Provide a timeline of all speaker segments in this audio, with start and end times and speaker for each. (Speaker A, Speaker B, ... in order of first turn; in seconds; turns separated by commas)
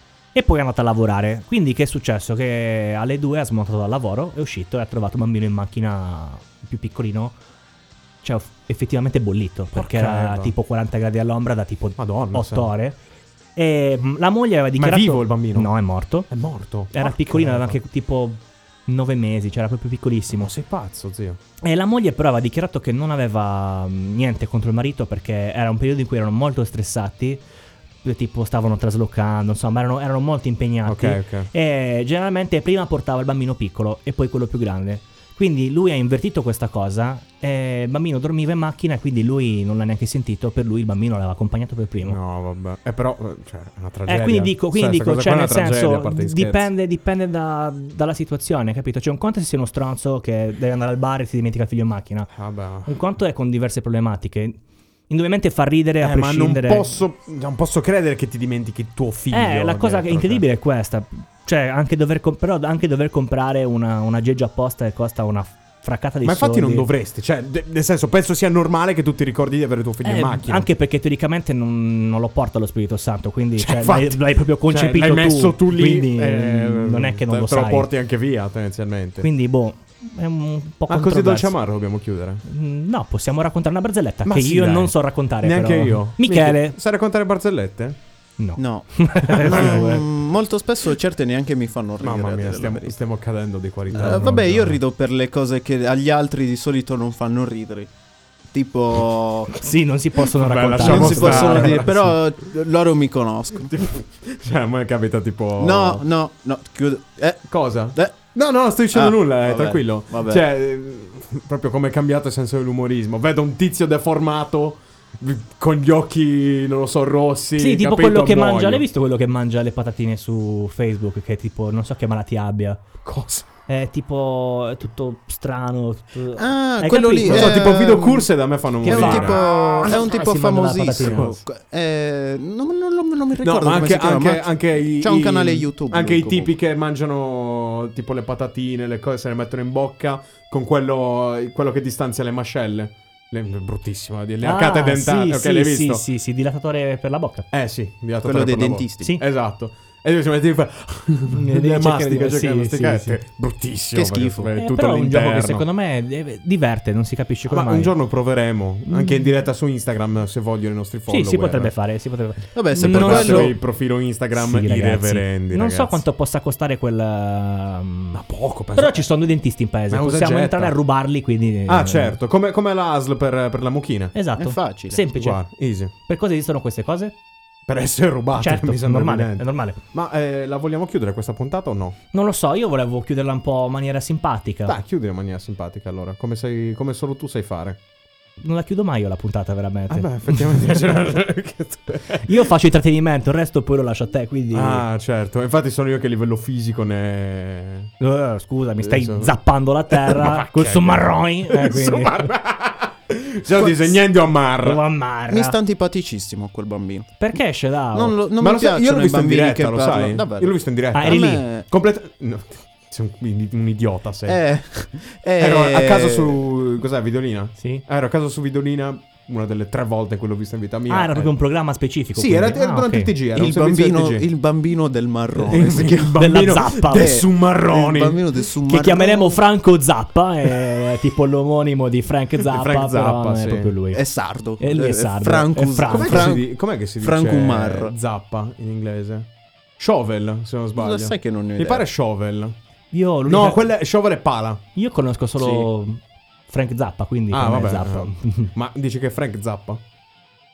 Speaker A: 0.3-7.3, Speaker A: 8.2-13.0, Speaker B: 9.7-10.5, Speaker B: 12.0-12.7, Speaker A: 13.6-16.3, Speaker B: 14.8-15.7, Speaker B: 16.3-17.8, Speaker A: 16.9-20.5, Speaker B: 20.3-21.4, Speaker A: 21.6-27.4, Speaker A: 28.0-42.2, Speaker B: 30.8-31.5, Speaker B: 42.0-46.7, Speaker A: 44.0-52.3, Speaker B: 52.3-53.0, Speaker A: 52.8-54.6, Speaker A: 55.1-56.9, Speaker B: 56.0-60.4, Speaker A: 59.3-66.9, Speaker B: 66.2-70.7, Speaker A: 70.0-77.9, Speaker B: 73.6-79.3, Speaker A: 79.2-81.6, Speaker B: 80.9-82.4, Speaker A: 82.5-86.8, Speaker B: 84.2-88.0, Speaker A: 88.4-90.0, Speaker C: 88.6-92.9, Speaker B: 89.5-89.7, Speaker B: 92.0-94.8, Speaker C: 93.9-97.9, Speaker C: 98.5-99.6, Speaker A: 99.5-102.0, Speaker B: 100.3-102.1, Speaker C: 100.8-103.9, Speaker B: 103.8-106.0, Speaker C: 105.6-108.2, Speaker B: 107.5-118.8, Speaker C: 108.9-110.4, Speaker A: 117.6-122.8, Speaker B: 123.0-123.5, Speaker A: 123.7-127.5, Speaker C: 126.4-136.5, Speaker B: 127.2-129.9, Speaker A: 128.8-131.4, Speaker B: 131.0-131.4, Speaker B: 133.4-146.0, Speaker A: 144.4-147.5, Speaker B: 147.5-155.6, Speaker C: 148.2-149.1, Speaker A: 151.3-153.2, Speaker C: 153.9-154.5, Speaker A: 154.6-157.9, Speaker B: 157.5-161.7, Speaker A: 158.9-159.3, Speaker A: 161.1-163.6, Speaker C: 162.5-163.5, Speaker B: 162.8-166.0, Speaker A: 164.3-168.2, Speaker B: 168.1-169.1, Speaker A: 168.7-172.2, Speaker B: 169.9-170.7, Speaker B: 171.7-174.1, Speaker A: 174.1-175.4, Speaker C: 174.4-175.0, Speaker B: 175.1-175.9, Speaker A: 176.0-177.1, Speaker B: 177.7-182.0, Speaker A: 178.3-179.8, Speaker A: 182.1-184.8, Speaker B: 184.7-187.8, Speaker A: 188.4-190.6, Speaker B: 189.9-192.5, Speaker A: 192.2-194.8, Speaker B: 194.5-197.9, Speaker A: 198.0-202.1, Speaker B: 198.8-199.4, Speaker B: 199.9-204.8, Speaker A: 204.6-205.6, Speaker C: 205.3-207.2, Speaker A: 207.2-208.2, Speaker C: 207.9-211.7, Speaker B: 208.4-214.4, Speaker A: 210.9-211.4, Speaker C: 214.2-216.4, Speaker B: 215.4-221.3, Speaker A: 217.6-217.8, Speaker A: 220.9-223.1, Speaker B: 222.1-224.2, Speaker C: 223.3-226.2, Speaker B: 225.5-228.2, Speaker A: 226.1-227.2, Speaker C: 226.8-229.4, Speaker A: 228.7-234.0, Speaker B: 232.4-233.7, Speaker C: 233.9-237.9, Speaker A: 234.6-236.3, Speaker B: 235.9-242.5, Speaker C: 240.8-241.8, Speaker A: 242.9-243.7, Speaker B: 243.2-244.6, Speaker A: 244.7-248.5, Speaker B: 245.4-245.7, Speaker B: 247.3-249.8